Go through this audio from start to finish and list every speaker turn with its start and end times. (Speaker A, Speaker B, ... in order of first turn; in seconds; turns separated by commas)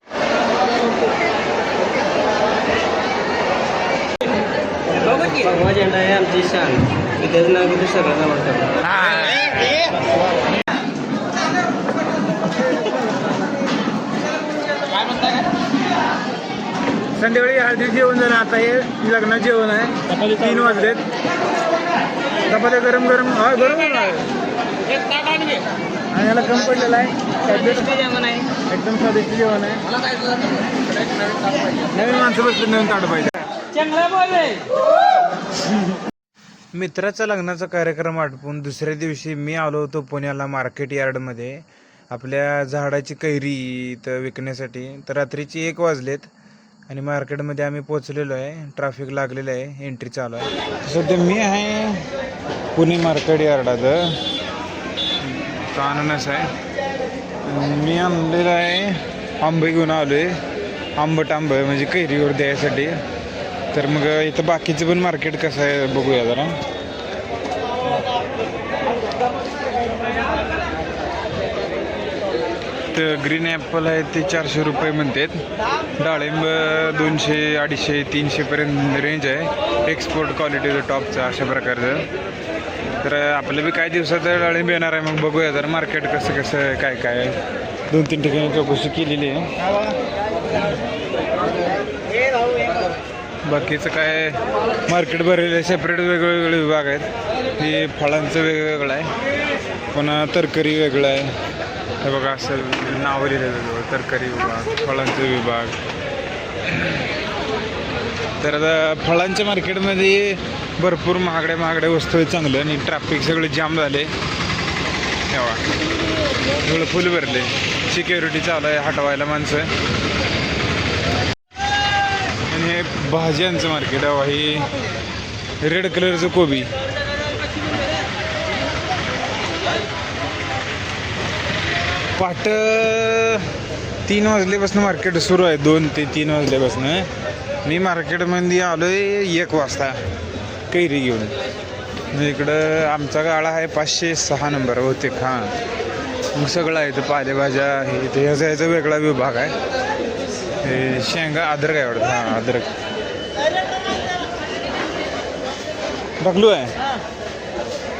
Speaker A: 5.0-8.4, Speaker B: 8.9-9.7, Speaker B: 17.2-21.1, Speaker B: 22.5-24.2, Speaker A: 25.2-25.5, Speaker B: 26.1-29.9, Speaker A: 27.9-28.4, Speaker B: 31.8-33.4, Speaker A: 33.8-34.6, Speaker B: 36.7-46.3, Speaker B: 46.9-52.1, Speaker B: 52.7-54.2, Speaker B: 55.2-56.5, Speaker B: 57.4-60.4, Speaker B: 61.0-63.0, Speaker B: 63.7-66.6, Speaker B: 72.9-75.4, Speaker B: 76.0-82.1, Speaker B: 82.9-87.4, Speaker B: 87.9-89.5, Speaker B: 93.5-99.1, Speaker B: 99.9-101.3, Speaker B: 102.0-105.8, Speaker B: 106.7-107.0, Speaker B: 108.4-114.1, Speaker B: 115.3-115.6, Speaker B: 116.6-119.7, Speaker B: 122.5-124.7, Speaker B: 125.6-126.7, Speaker B: 132.2-133.5, Speaker B: 134.1-137.1, Speaker B: 137.6-140.0, Speaker B: 140.7-141.4, Speaker B: 142.1-145.5, Speaker B: 146.3-149.5, Speaker B: 150.6-152.7, Speaker B: 156.2-156.7